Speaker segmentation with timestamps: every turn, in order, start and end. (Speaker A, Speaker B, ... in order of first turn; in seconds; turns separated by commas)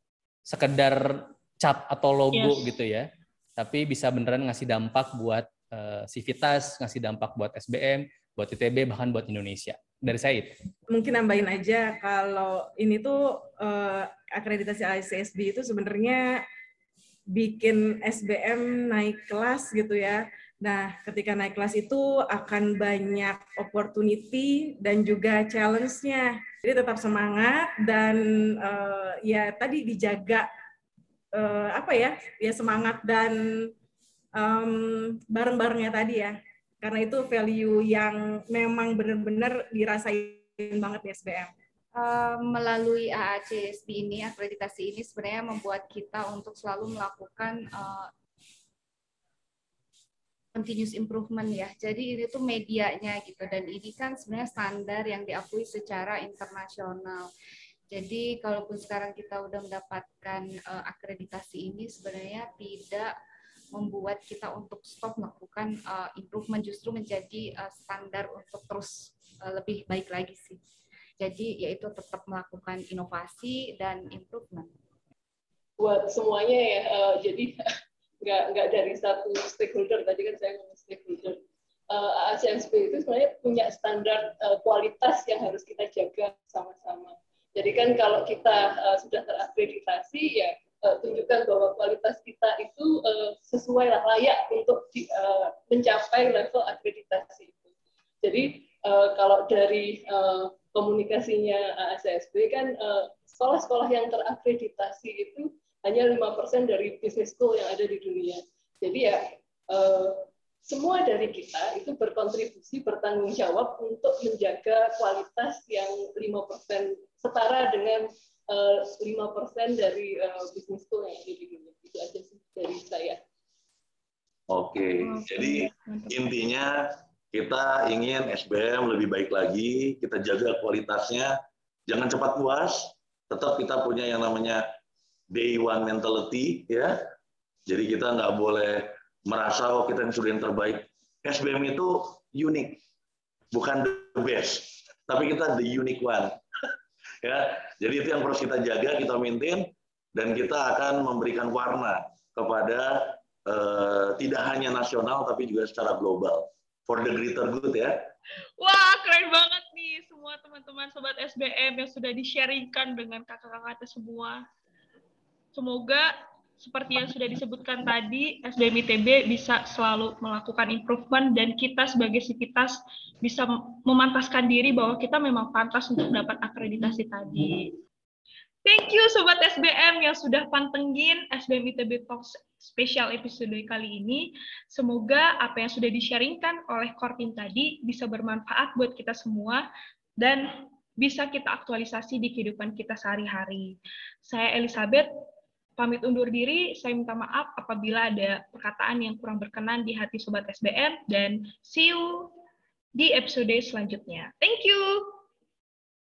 Speaker A: 0.5-10.6, Speaker B: 2.3-2.7, Speaker C: 10.9-16.4, Speaker C: 17.3-30.5, Speaker C: 31.3-33.7, Speaker C: 34.4-41.5, Speaker D: 41.9-48.1, Speaker D: 50.5-57.3, Speaker D: 57.9-63.1, Speaker D: 63.7-70.6, Speaker D: 71.2-74.7, Speaker E: 75.8-77.6, Speaker E: 78.2-97.7, Speaker E: 98.2-123.2, Speaker F: 124.5-126.8, Speaker B: 125.0-126.3, Speaker F: 127.3-131.3, Speaker F: 131.9-134.6, Speaker F: 135.3-137.0, Speaker F: 137.7-142.8, Speaker F: 143.5-146.4, Speaker F: 147.2-158.0, Speaker B: 158.6-164.4, Speaker B: 165.5-177.7, Speaker B: 178.6-189.6, Speaker B: 190.2-195.1, Speaker B: 195.8-202.3, Speaker B: 202.9-205.2